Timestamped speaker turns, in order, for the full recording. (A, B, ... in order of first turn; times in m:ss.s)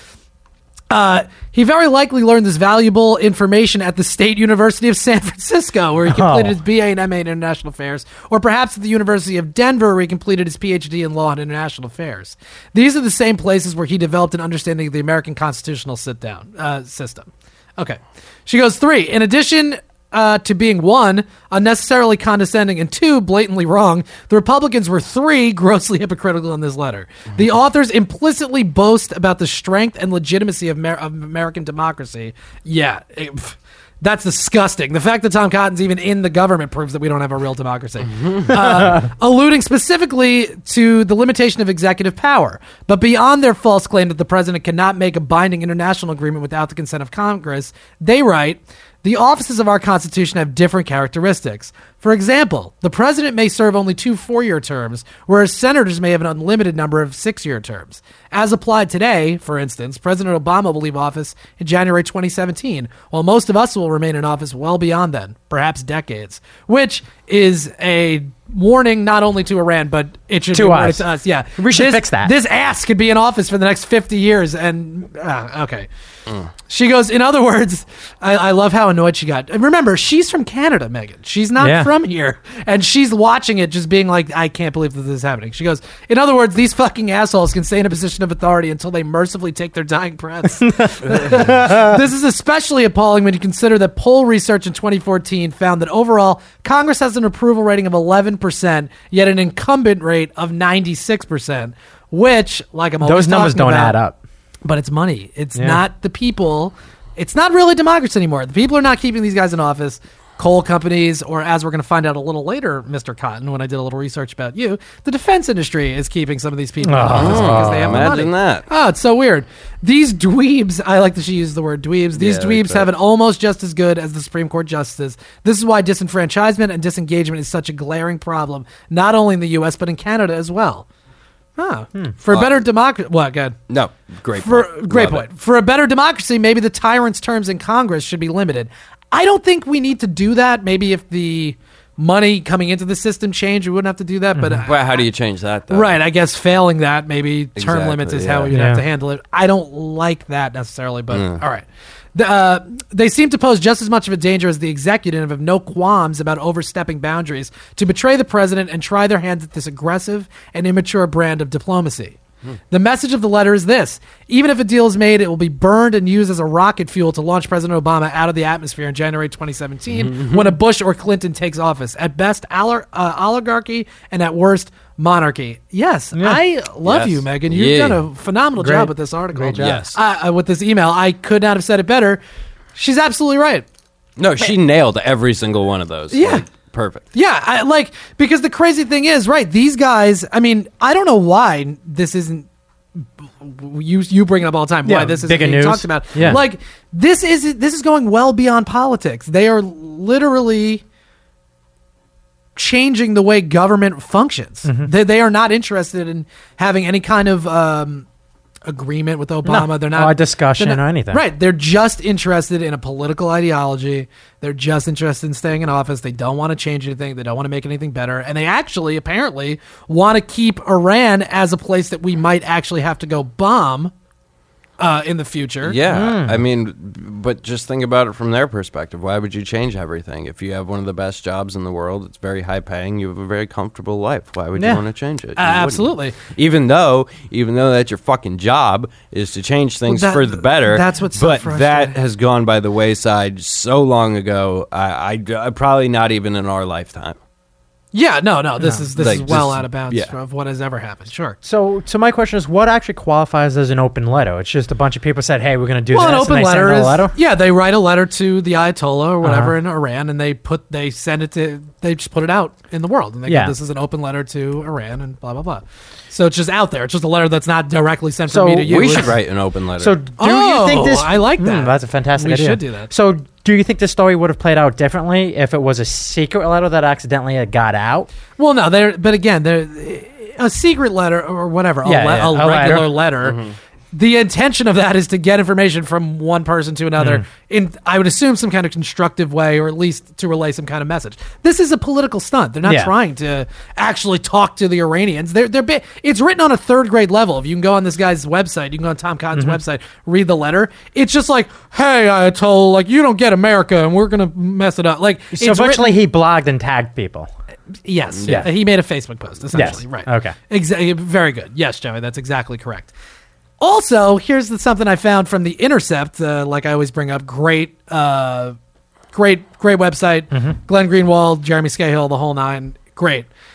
0:00.9-1:15.9 A
0:06.0-0:06.6 B
1:10.5-1:12.3 B
1:16.6-1:43.9 A
1:21.6-1:21.9 B
1:30.7-1:31.9 B
1:43.0-1:44.2 B
1:44.6-2:10.8 A
1:45.6-1:45.8 B
1:56.8-1:58.2 B
1:57.1-1:58.7 C
2:02.1-2:02.9 C
2:11.6-2:13.6 A
2:12.3-2:12.6 C
2:13.7-2:15.3 C
2:14.4-2:25.0 A
2:24.4-2:24.6 B
2:24.6-2:26.0 C
2:25.7-2:42.2 A
2:27.6-2:28.5 C
2:28.5-2:28.8 B
2:31.1-2:31.4 C
2:42.7-3:02.2 A
2:49.9-2:50.5 C
2:56.1-2:56.4 B
2:56.8-2:58.0 C
2:58.6-2:59.8 B
2:59.5-3:00.0 C
3:02.8-3:03.6 A
3:04.2-3:07.0 C
3:06.1-3:06.4 A
3:07.1-3:12.5 A
3:13.0-3:20.8 A
3:14.8-3:16.4 B
3:22.6-3:28.0 A
3:24.6-3:24.9 B
3:28.6-3:43.9 A
3:29.4-3:31.2 B
3:44.8-3:45.8 A
3:45.6-4:07.2 C
3:45.8-3:46.4 B
3:54.6-3:54.8 B
3:55.4-3:56.2 A
3:59.9-4:01.9 A
4:07.9-4:11.4 A
4:08.9-4:10.1 C
4:11.4-4:17.2 B
4:15.9-4:29.1 A
4:19.2-4:19.5 B
4:23.3-4:23.5 B
4:28.3-4:29.1 B
4:28.6-4:30.0 C
4:29.8-4:38.1 B
4:30.2-4:32.9 A
4:38.4-4:43.4 A
4:41.8-4:42.9 B
4:43.2-4:43.5 C
4:43.9-5:06.0 A
4:47.0-4:47.2 B
4:52.6-4:52.9 B
5:05.3-5:07.3 B
5:07.8-5:12.9 A
5:08.2-5:08.5 C
5:09.5-5:10.4 B
5:13.6-5:18.6 A
5:19.1-5:23.3 A
5:20.3-5:20.6 B